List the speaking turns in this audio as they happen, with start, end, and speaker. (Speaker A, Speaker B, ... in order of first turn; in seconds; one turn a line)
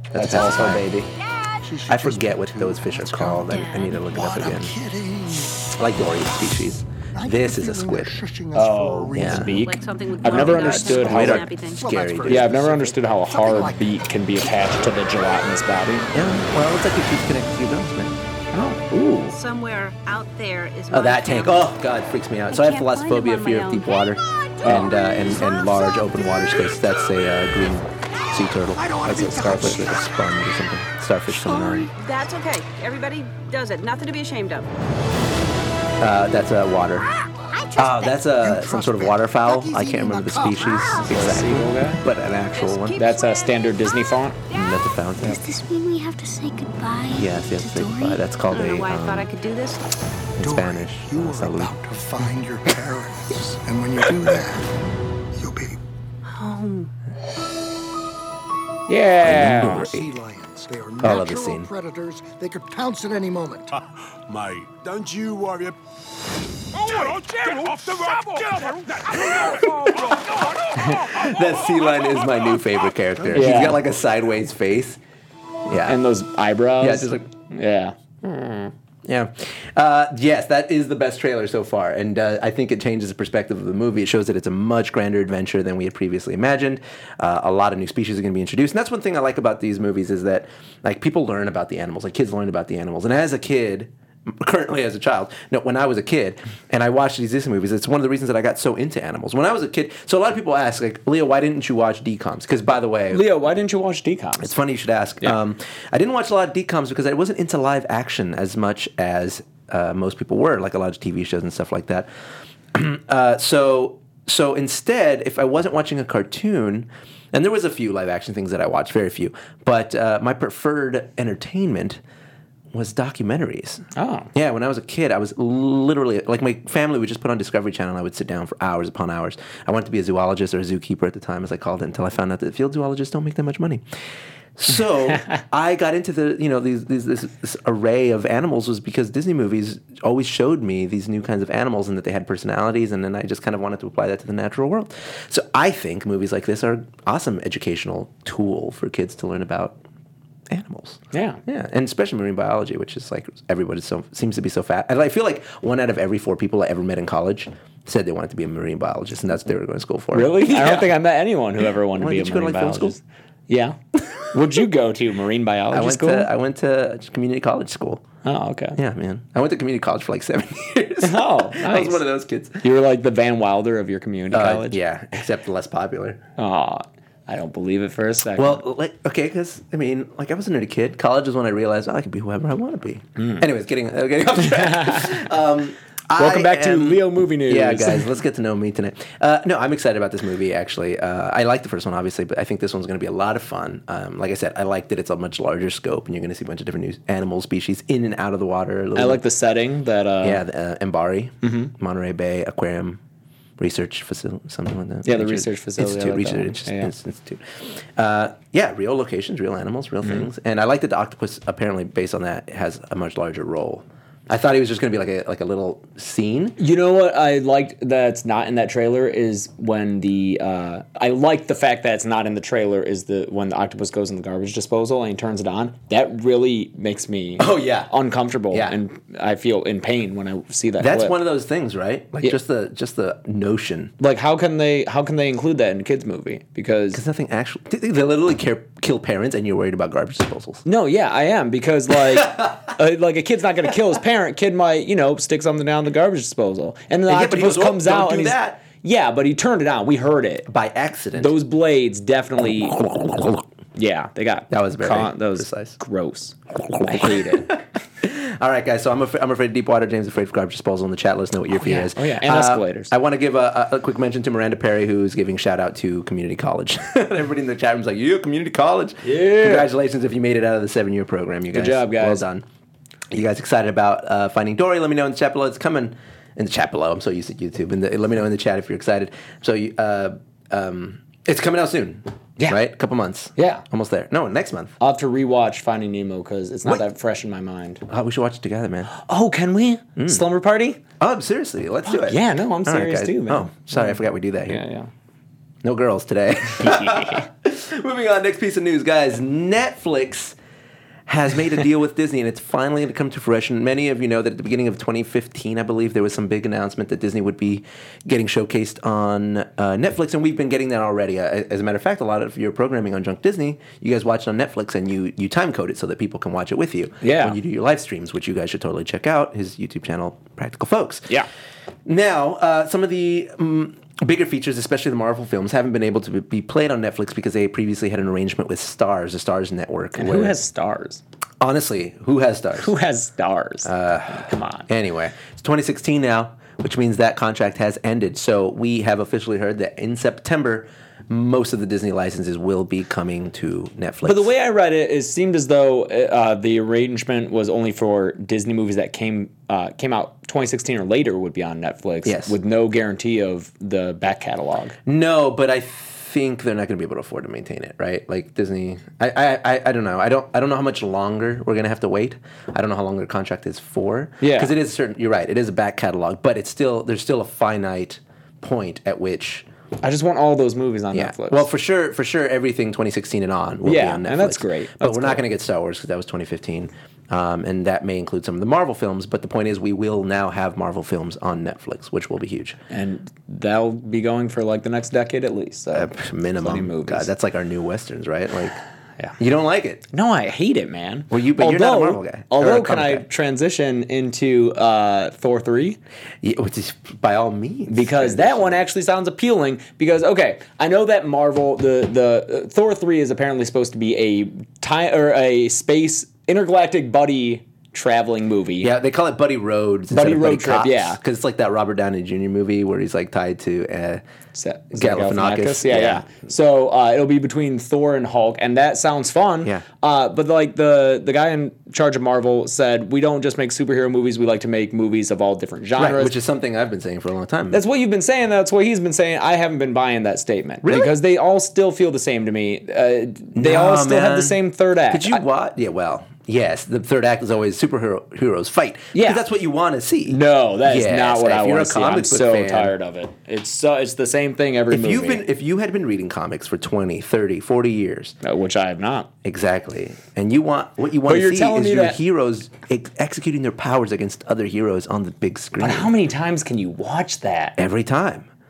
Speaker A: 0.1-0.9
Speaker B: 0.1-1.1
Speaker C: 1.2-1.6
Speaker D: 1.6-5.7
Speaker A: 1.9-4.8
Speaker A: 5.7-8.2
Speaker D: 7.1-15.8
Speaker B: 8.5-11.5
Speaker A: 9.1-9.6
Speaker E: 9.7-11.8
Speaker A: 10.3-12.6
Speaker B: 12.3-16.1
Speaker A: 16.1-18.1
Speaker B: 18.5-19.4
Speaker E: 19.3-21.7
Speaker A: 20.9-31.9
Speaker E: 22.5-23.9
Speaker C: 24.0-26.7
Speaker B: 24.6-24.9
Speaker D: 28.7-30.2
Speaker B: 29.4-29.8
Speaker C: 31.5-31.8
Speaker E: 32.0-34.7
Speaker A: 36.0-37.1
Speaker C: 37.2-38.2
Speaker A: 37.8-43.1
Speaker D: 38.3-41.3
Speaker B: 41.1-42.0
Speaker E: 42.5-44.0
Speaker B: 43.0-44.4
Speaker A: 44.5-45.5
Speaker C: 45.4-47.2
Speaker A: 47.1-49.3
Speaker C: 47.7-48.2
Speaker E: 48.5-49.9
Speaker A: 50.4-51.8
Speaker D: 50.4-54.7
Speaker D: 55.3-55.8
Speaker E: 56.2-56.9
Speaker B: 58.9-59.9
Speaker A: 59.2-60.1
Speaker D: 59.3-63.8
Speaker A: 61.0-61.7
Speaker F: 64.3-65.8
Speaker F: 66.7-71.9
Speaker A: 71.0-75.0
Speaker B: 73.3-73.8
Speaker A: 75.7-76.0
Speaker B: 75.9-78.7
Speaker A: 76.8-77.3
Speaker A: 79.0-103.2
Speaker B: 103.1-104.5
Speaker A: 104.4-112.1
Speaker A: 112.7-122.0
Speaker A: 122.7-133.8
Speaker B: 124.0-124.3
Speaker A: 134.6-149.8
Speaker A: 150.5-160.9
Speaker B: 151.1-151.4
Speaker B: 160.1-163.8
Speaker A: 162.0-163.0
Speaker B: 164.3-166.3
Speaker A: 165.7-168.0
Speaker B: 168.2-168.8
Speaker A: 168.8-172.6
Speaker B: 171.0-172.0
Speaker B: 172.6-174.8
Speaker A: 174.3-176.2
Speaker B: 176.4-178.6
Speaker A: 178.4-199.2
Speaker B: 184.4-185.2
Speaker B: 186.2-188.1
Speaker B: 199.0-200.4
Speaker A: 200.2-203.0
Speaker B: 201.4-201.7
Speaker A: 203.6-216.6
Speaker B: 205.1-206.9
Speaker B: 216.6-231.2
Speaker A: 227.4-227.9
Speaker A: 228.5-228.8
Speaker A: 230.8-233.9
Speaker B: 234.0-237.0
Speaker A: 236.9-240.6
Speaker B: 240.7-250.5
Speaker A: 247.1-248.6
Speaker A: 250.5-251.3
Speaker B: 251.2-257.5
Speaker A: 254.5-255.8
Speaker A: 256.9-272.4
Speaker B: 261.6-262.9
Speaker B: 269.0-269.7
Speaker B: 271.5-272.2
Speaker A: 273.1-284.7
Speaker B: 283.4-283.6
Speaker B: 284.8-287.8
Speaker A: 287.9-288.9
Speaker B: 288.9-290.8
Speaker A: 290.0-290.2
Speaker A: 291.0-294.6
Speaker B: 291.9-294.9
Speaker A: 295.6-300.4
Speaker B: 296.6-297.2
Speaker A: 301.1-321.1
Speaker B: 317.0-317.4
Speaker A: 321.9-330.4
Speaker B: 330.0-331.0
Speaker A: 331.4-332.7
Speaker B: 332.6-334.7
Speaker A: 333.6-344.3
Speaker B: 344.1-354.8
Speaker A: 352.1-352.4
Speaker A: 354.9-369.5
Speaker B: 364.2-364.5
Speaker B: 369.8-371.5
Speaker A: 370.9-382.6
Speaker B: 373.6-375.2
Speaker B: 382.7-387.1
Speaker A: 385.7-388.6
Speaker A: 389.2-389.8
Speaker B: 389.9-395.8
Speaker A: 391.1-393.1
Speaker A: 396.2-398.6
Speaker B: 397.7-408.7
Speaker A: 408.6-414.0
Speaker B: 409.9-411.0
Speaker B: 414.4-426.1
Speaker A: 414.7-416.1
Speaker A: 425.8-427.6
Speaker B: 427.5-435.2
Speaker A: 430.6-430.9
Speaker A: 433.4-434.4
Speaker A: 434.9-442.7
Speaker B: 438.9-439.2
Speaker B: 440.1-445.3
Speaker A: 444.7-448.1
Speaker B: 448.2-449.1
Speaker A: 449.2-455.9
Speaker B: 451.1-452.0
Speaker B: 455.6-457.6
Speaker A: 457.6-458.3